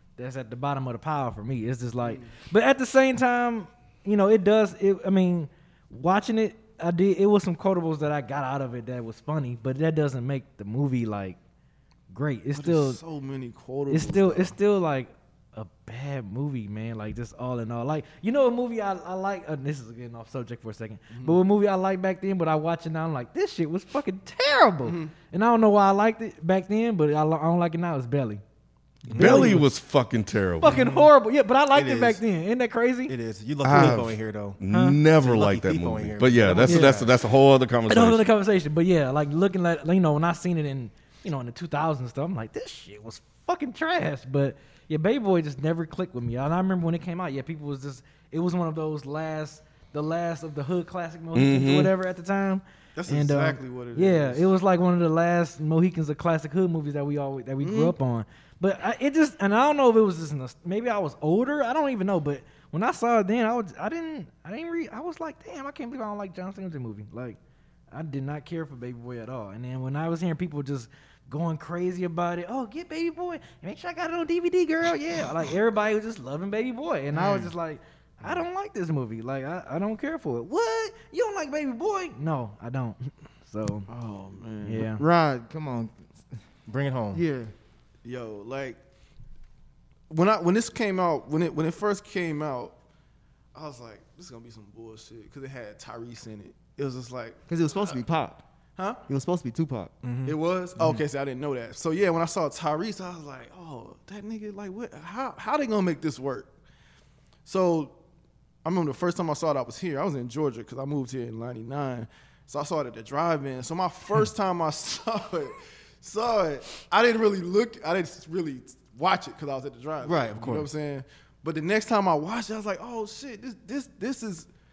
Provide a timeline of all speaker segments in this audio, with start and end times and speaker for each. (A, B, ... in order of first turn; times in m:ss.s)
0:00.2-0:11.4 A
0:02.0-0:02.3 B
0:12.1-0:13.0 A
0:12.5-0:14.6 B
0:13.9-0:28.4 A
0:21.1-0:21.4 B
0:24.8-0:25.1 B
0:29.0-0:29.7 A
0:29.1-0:29.5 C
0:29.2-0:30.8 D
0:30.6-0:33.1 A
0:30.7-0:31.0 B
0:31.7-0:32.2 C
0:33.1-0:34.6 C
0:33.6-0:38.2 D
0:34.7-0:35.0 A
0:35.2-0:37.1 C
0:36.5-0:37.0 A
0:37.9-1:07.4 A
0:51.3-0:51.9 D
0:53.0-0:54.5 B
0:57.6-0:57.9 B
1:07.9-1:23.9 A
1:17.1-1:17.5 B
1:23.9-1:24.9 B
1:24.6-1:25.0 A
1:24.9-1:25.9 E
1:26.7-1:27.2 C
1:27.1-1:27.5 E
1:28.0-1:28.8 B
1:30.1-1:32.7 B
1:33.5-1:37.9 B
1:37.5-1:38.4 E
1:39.1-1:39.9 E
1:40.0-1:40.4 C
1:40.2-1:46.5 B
1:47.4-1:47.9 B
1:48.6-2:04.5 B
2:00.0-2:00.7 C